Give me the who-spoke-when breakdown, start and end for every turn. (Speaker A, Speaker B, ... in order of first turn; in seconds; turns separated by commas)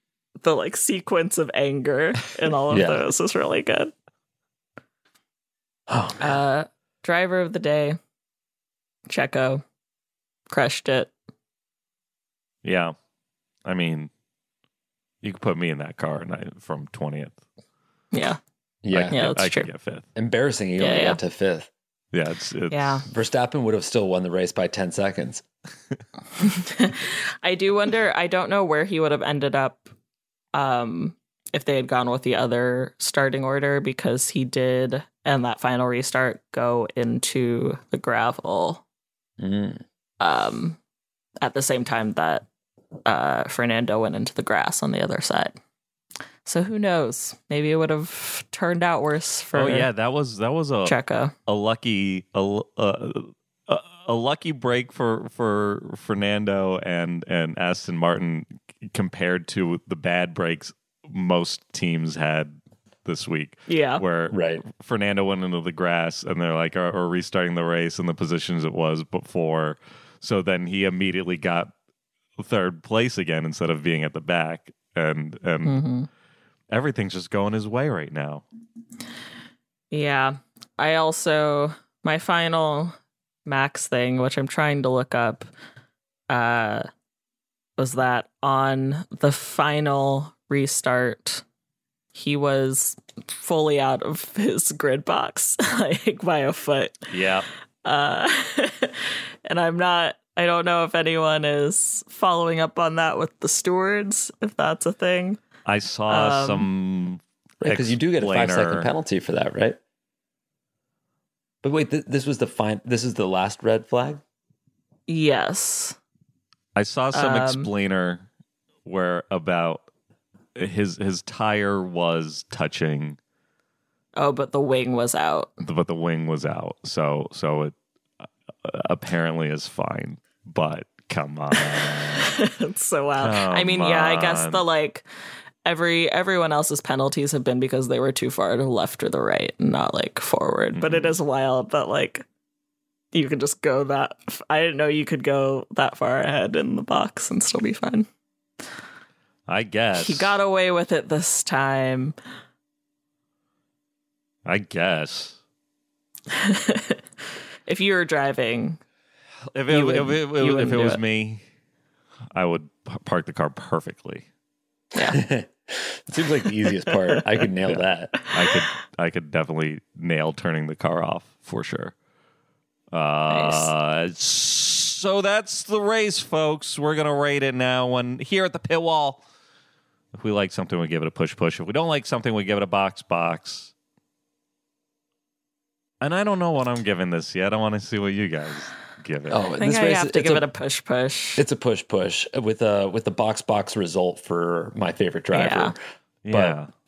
Speaker A: 0.4-3.9, Speaker B: 2.7-3.0, Speaker B: 5.9-6.3, Speaker A: 6.2-8.0, Speaker A: 9.1-9.6, Speaker A: 10.5-11.1, Speaker C: 12.6-12.9, Speaker C: 13.7-14.1, Speaker C: 15.2-17.4, Speaker A: 18.1-18.4, Speaker B: 18.8-19.2, Speaker C: 18.9-20.0, Speaker A: 19.1-19.7, Speaker B: 20.1-21.7, Speaker A: 20.8-21.2, Speaker C: 22.1-23.1, Speaker A: 22.7-23.0, Speaker B: 23.1-25.4, Speaker A: 26.4-29.9, Speaker A: 30.5-38.8, Speaker B: 39.4-39.8, Speaker A: 40.2-40.8, Speaker A: 41.4-42.5, Speaker A: 43.0-45.6, Speaker A: 46.4-49.9, Speaker C: 49.5-71.7, Speaker A: 50.8-51.3, Speaker A: 63.7-64.0, Speaker B: 64.3-64.6, Speaker C: 72.4-75.8, Speaker A: 75.6-76.1, Speaker C: 76.7-78.4, Speaker A: 79.9-82.9, Speaker A: 83.5-85.5, Speaker A: 86.3-86.9, Speaker A: 87.8-91.4, Speaker A: 92.1-97.1, Speaker C: 97.1-97.5, Speaker A: 97.8-105.4, Speaker C: 105.7-108.9, Speaker A: 106.1-106.7, Speaker B: 107.6-109.8, Speaker B: 111.6-114.2, Speaker A: 115.1-116.0, Speaker C: 116.8-118.3, Speaker A: 117.1-117.7, Speaker C: 118.8-119.8, Speaker C: 120.5-123.2, Speaker A: 124.2-125.5, Speaker C: 125.6-127.7, Speaker C: 128.6-132.3, Speaker A: 131.5-135.1, Speaker C: 133.2-134.6, Speaker A: 135.6-142.2, Speaker C: 140.7-141.1, Speaker A: 143.1-148.1, Speaker C: 149.5-150.4, Speaker A: 149.9-152.1, Speaker C: 154.4-155.4, Speaker A: 156.3-157.0, Speaker A: 157.7-158.8, Speaker C: 159.5-161.4, Speaker A: 159.7-161.0, Speaker C: 162.3-164.2, Speaker A: 164.9-165.2, Speaker B: 165.1-168.1, Speaker C: 167.7-171.9, Speaker C: 172.9-179.2, Speaker A: 173.3-173.7, Speaker C: 180.1-183.7, Speaker C: 186.0-189.4, Speaker B: 189.3-190.4, Speaker A: 189.6-191.4, Speaker B: 191.4-195.8, Speaker A: 195.3-195.7, Speaker C: 196.2-196.7, Speaker B: 196.3-196.6